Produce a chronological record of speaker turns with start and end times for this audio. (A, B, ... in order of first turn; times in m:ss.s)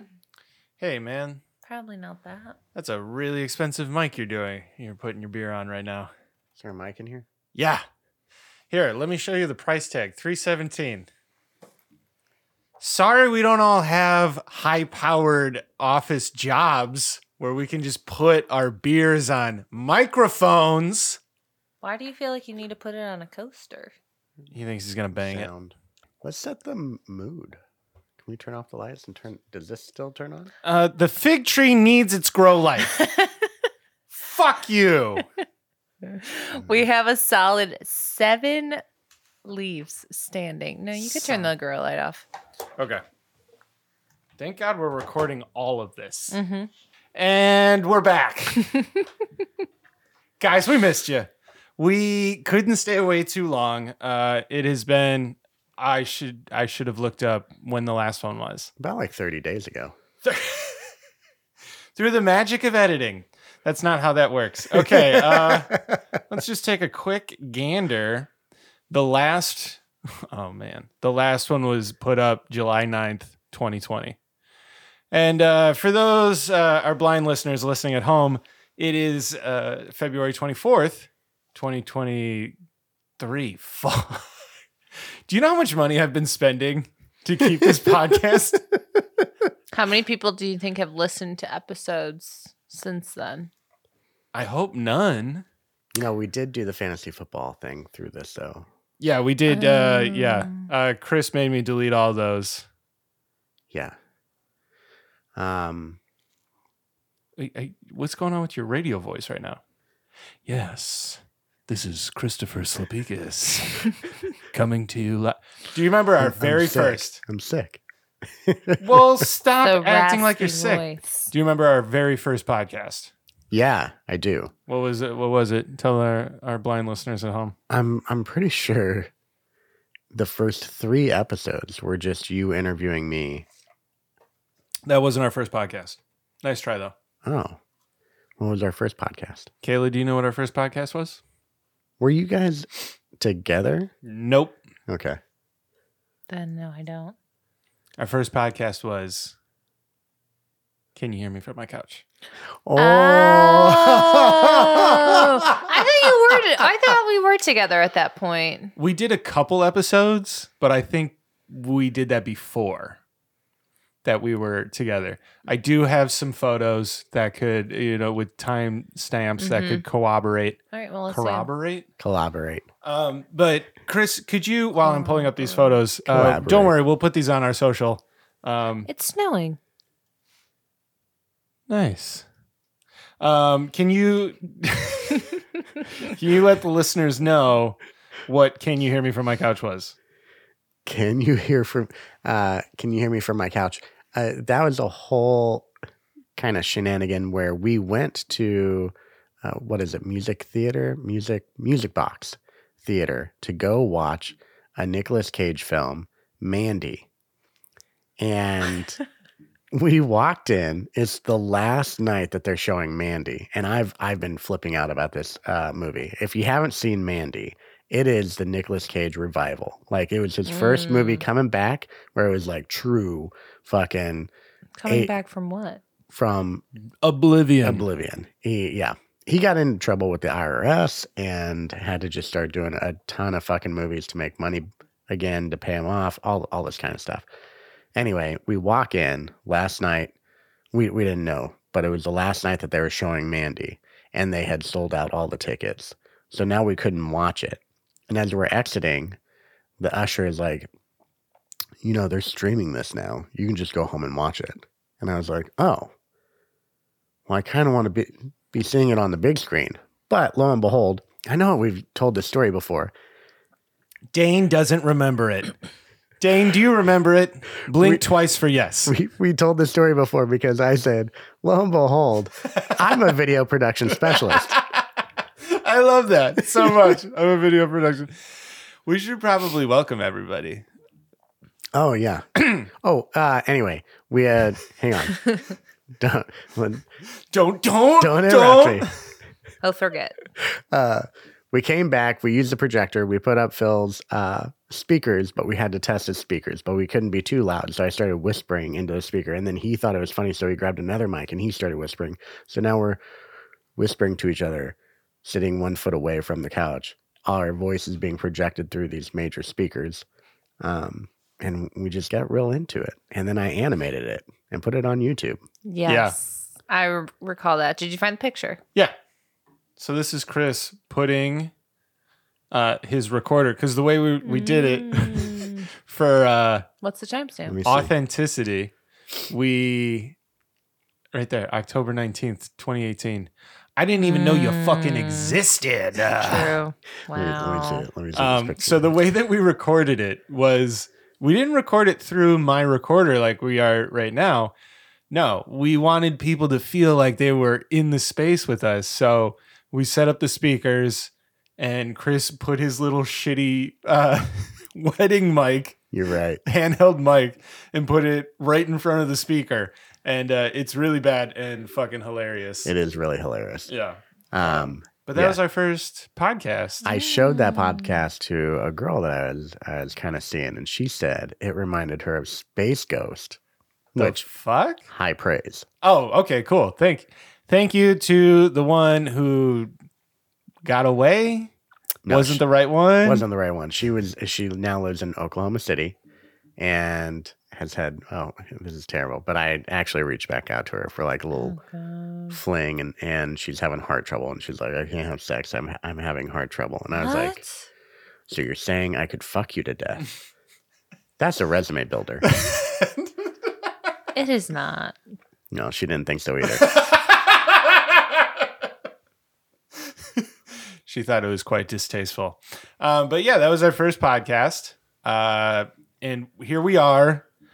0:00.8-0:01.4 A
0:01.6-0:02.6 B
0:02.8-0:06.1 A
0:06.6-0:07.2 C
0:07.6-0:07.8 A
0:08.7-0:11.1 A
0:12.8-0:21.2 A
0:21.8-0:23.9 B
0:24.5-0:25.5 A
0:25.2-0:27.6 C
0:28.2-0:30.5 C
0:30.6-0:32.9 A
0:33.0-0:33.3 B
0:34.1-0:35.2 A
0:36.0-0:38.8 B
0:39.4-0:42.3 B
0:41.0-0:41.5 A
0:44.4-0:46.4 A
0:46.3-0:46.7 B
0:47.2-0:48.7 A
0:50.4-0:58.7 A
0:58.8-1:00.0 C
1:00.2-1:00.9 A
1:02.0-1:08.3 A
1:04.7-1:05.6 C
1:08.9-1:14.2 A
1:15.1-1:22.6 A
1:23.2-1:24.3 A
1:25.3-1:28.6 A
1:29.7-1:33.5 B
1:34.3-1:35.4 A
1:35.9-1:38.7 C
1:39.0-1:42.7 A
1:39.5-1:40.7 B
1:45.4-1:46.0 C
1:47.4-1:49.6 A
1:50.5-1:53.9 A
1:54.5-1:57.2 A
1:56.2-1:57.8 C
1:58.4-1:59.2 C
1:58.8-2:03.1 A
1:59.6-2:01.3 B
2:03.5-2:04.5 C
2:04.7-2:07.6 A
2:07.7-2:09.1 C
2:10.1-2:13.5 C
2:14.9-2:16.9 A
2:17.2-2:17.6 C
2:18.4-2:19.5 C
2:19.6-2:21.2 A
2:22.0-2:23.9 C
2:24.0-2:24.6 A
2:24.9-2:25.2 C
2:26.3-2:27.2 B
2:28.0-2:29.3 A
2:31.0-2:32.0 A
2:32.7-2:35.4 C
2:32.8-2:38.7 B
2:38.8-2:43.0 A
2:44.0-2:50.6 A
2:49.4-2:49.8 B
2:50.7-2:51.5 B
2:51.1-2:51.9 A
2:52.0-2:52.7 C
2:52.8-2:58.9 A
2:54.8-2:55.8 B
2:56.1-2:56.8 C
2:58.9-2:59.6 B
3:01.7-3:02.2 A
3:03.2-3:05.3 A
3:06.0-3:10.0 A
3:10.9-3:15.7 C
3:16.4-3:27.1 C
3:28.2-3:29.0 C
3:29.7-3:44.3 C
3:40.5-3:41.2 B
3:44.8-3:45.8 B
3:44.9-3:45.1 C
3:46.1-3:46.6 C
3:47.0-3:47.8 A
3:47.6-3:57.2 C
3:57.9-4:00.1 C
4:00.7-4:09.2 C
4:09.8-4:10.7 C
4:11.8-4:15.9 C
4:17.3-4:22.9 C
4:24.1-4:25.5 A
4:26.2-4:28.9 A
4:27.8-4:28.0 C
4:28.9-4:34.6 C
4:34.1-4:34.6 A
4:35.5-4:38.1 A
4:38.9-4:40.6 A
4:41.7-4:45.2 C
4:46.0-4:46.8 C
4:47.3-4:48.8 A
4:48.0-4:48.9 C
4:49.6-4:50.2 B
4:50.7-5:03.0 C
5:03.8-5:10.0 C
5:10.6-5:15.4 C
5:15.6-5:18.6 B
5:15.9-5:16.2 A
5:19.8-5:21.5 A
5:22.5-5:26.7 A
5:24.2-5:25.7 B
5:26.8-5:27.6 B
5:27.5-5:27.9 C
5:27.6-5:28.7 A
5:29.3-5:30.2 A
5:31.1-5:36.6 A
5:34.0-5:35.4 B
5:36.1-5:37.9 B
5:37.1-5:39.0 C
5:38.2-5:44.5 A
5:45.1-5:55.8 A
5:55.9-5:56.4 C
5:56.4-6:02.7 A
6:02.6-6:03.7 C
6:03.7-6:06.9 A
6:04.3-6:05.4 C
6:06.8-6:13.4 C
6:06.9-6:08.0 B
6:14.0-6:14.2 C
6:14.0-6:14.8 A
6:14.9-6:15.6 C
6:15.8-6:19.7 A
6:20.6-6:21.5 A
6:22.0-6:22.4 C
6:22.1-6:23.2 A
6:23.0-6:26.0 C
6:26.6-6:31.6 C
6:31.4-6:32.4 B
6:32.3-6:37.4 C
6:36.9-6:37.6 B
6:38.3-6:40.0 C
6:41.2-6:42.2 C
6:42.3-6:43.1 A
6:44.2-6:45.0 B
6:45.5-6:46.9 C
6:46.6-6:47.9 A
6:50.9-6:57.2 A